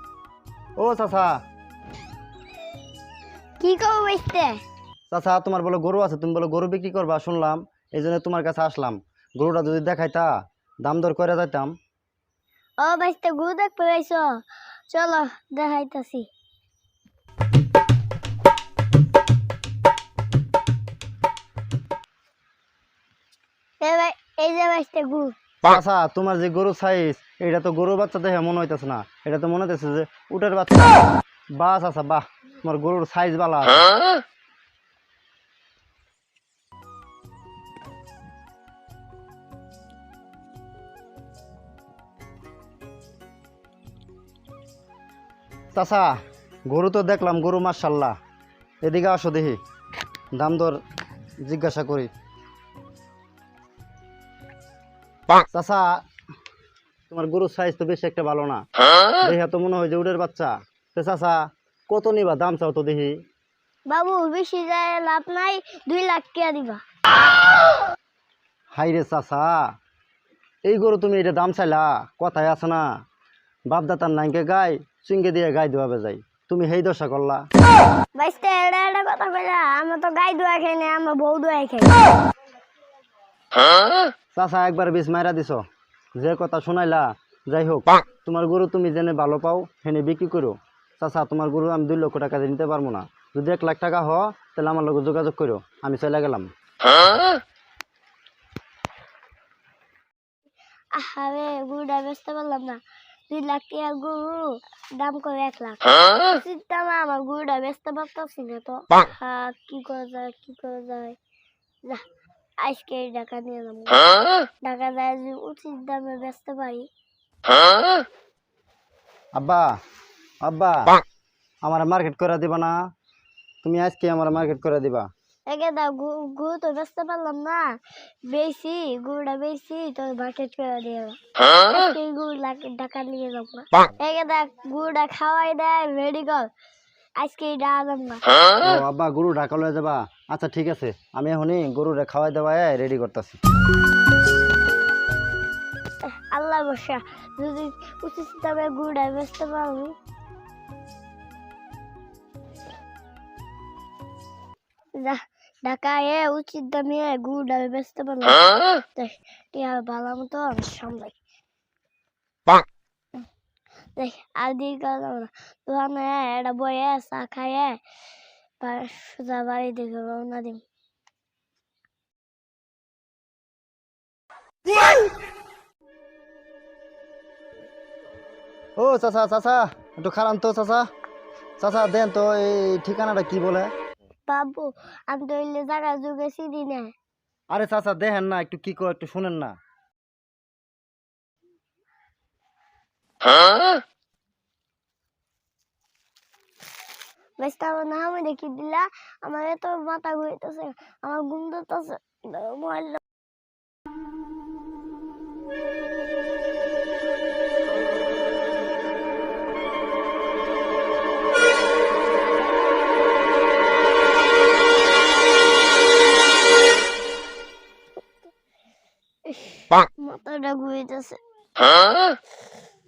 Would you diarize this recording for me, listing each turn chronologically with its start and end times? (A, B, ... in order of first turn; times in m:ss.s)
0:00.8-0:01.4 A
0:03.6-0:04.6 B
0:05.1-0:10.3 A
0:10.8-0:11.8 A
0:12.8-0:14.3 B
0:14.9-0:16.3 B
0:23.8-0:25.3 B
0:25.6-0:31.0 A
0:31.6-0:33.9 A
0:45.7-0:46.2 A
0:46.7-0:48.2 A
0:48.8-0:49.6 A
0:50.4-0:50.8 A
0:51.4-0:52.1 A
0:55.5-0:56.0 A
0:57.1-0:58.6 A
0:59.2-1:03.2 A
1:03.9-1:06.8 B
1:08.8-1:09.7 A
1:10.6-1:12.9 A
1:13.7-1:17.5 A
1:18.2-1:22.1 B
1:24.4-1:25.6 A
1:26.2-1:36.5 A
1:40.9-1:51.2 B
1:52.6-1:56.9 B
1:59.4-1:59.7 A
2:00.4-2:01.0 A
2:01.6-2:02.8 A
2:03.6-2:05.1 A
2:05.5-2:07.7 B
2:08.3-2:16.5 B
2:17.2-2:18.2 B
2:18.6-2:23.4 A
2:26.0-2:30.0 B
2:35.0-2:41.2 B
2:44.0-2:47.8 B
2:48.6-2:50.6 B
2:58.8-3:00.9 A
3:01.6-3:03.7 A
3:04.3-3:06.9 B
3:07.5-3:09.6 A
3:17.4-3:23.0 B
3:39.3-3:41.2 B